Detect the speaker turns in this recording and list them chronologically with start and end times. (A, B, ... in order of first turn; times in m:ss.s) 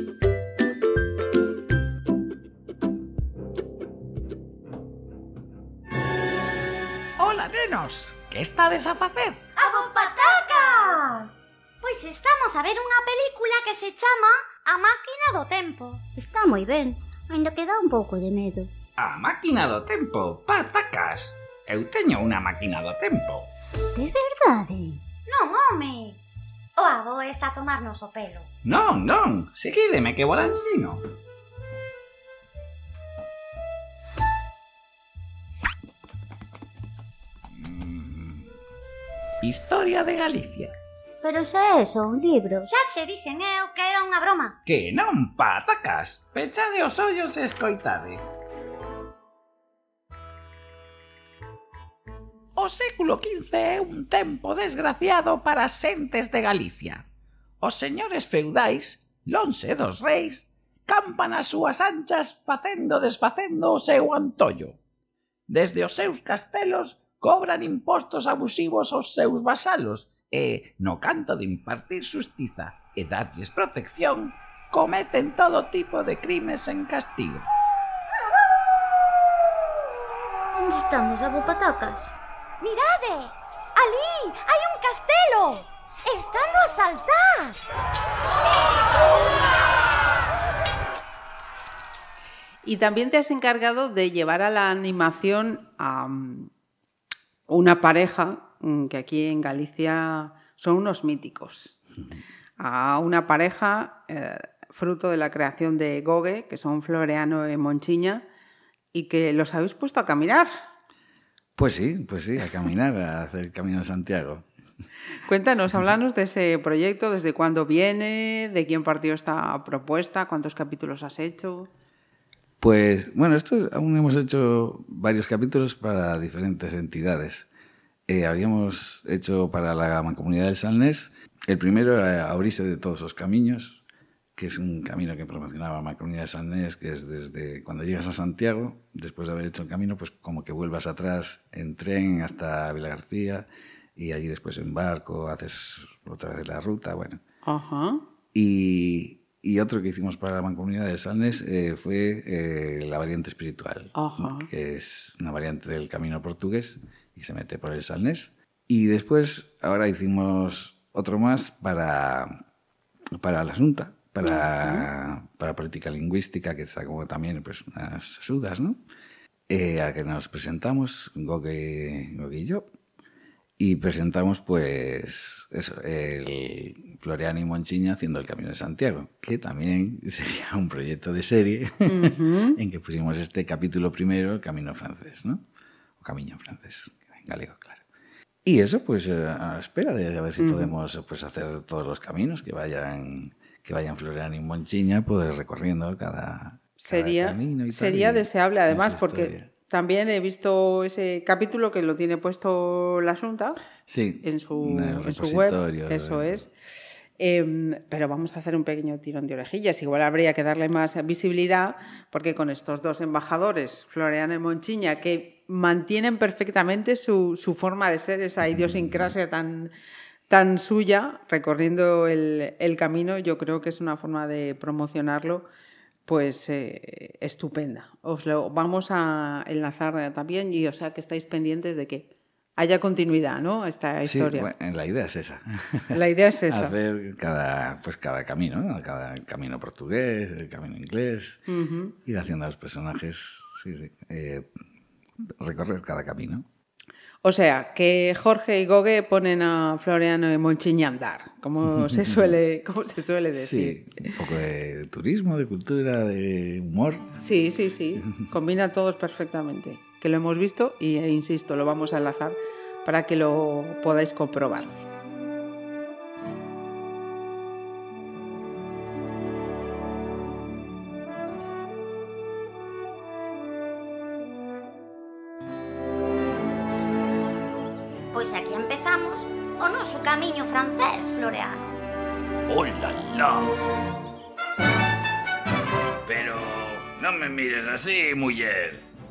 0:07.2-0:09.4 A
0:09.6-0:11.3 B
0:09.7-0:11.0 C
0:11.8-0:16.0 B
0:16.1-0:18.7 C
0:19.0-0:23.5 A
0:24.0-0:25.0 C
0:25.3-0:26.2 B
0:26.8-0:28.5 B
0:28.6-0:31.0 A
0:37.6-0:38.5 A
0:39.4-0:40.7 A
0:41.2-0:42.7 C
0:42.7-0:44.6 B
0:44.7-0:48.2 A
0:52.6-0:57.0 A
0:57.6-1:04.8 A
1:05.5-1:17.5 A
1:20.6-1:22.1 C
1:22.6-1:27.5 B
1:32.6-1:36.5 D
1:37.5-1:41.8 D
1:42.6-1:48.2 D
1:48.9-1:50.5 D
1:51.6-1:54.5 E
1:55.2-2:01.7 D
2:02.6-2:07.5 E
2:08.1-2:13.8 E
2:14.4-2:27.2 E
2:27.5-2:28.0 D
2:28.3-2:42.4 E
2:34.0-2:34.5 D
2:43.2-2:48.8 E
2:44.2-2:44.9 D
2:49.5-2:52.6 E
2:53.6-3:05.4 E
3:01.9-3:02.6 D
3:06.0-3:07.8 E
3:08.4-3:19.5 E
3:10.4-3:10.7 D
3:16.8-3:23.6 D
3:23.9-3:26.5 E
3:24.2-3:26.5 D
3:27.2-3:39.7 D
3:40.3-3:45.5 D
3:46.1-3:54.5 D
3:54.0-4:01.4 E
3:55.9-3:56.8 D
4:01.5-4:02.0 D
4:02.0-4:04.5 E
4:05.4-4:06.5 E
4:07.2-4:14.1 D
4:11.7-4:12.4 E
4:13.4-4:17.1 E
4:17.2-4:24.8 D
4:18.0-4:18.2 E
4:38.1-4:41.7 B
4:42.5-4:43.6 A
4:46.1-4:48.8 A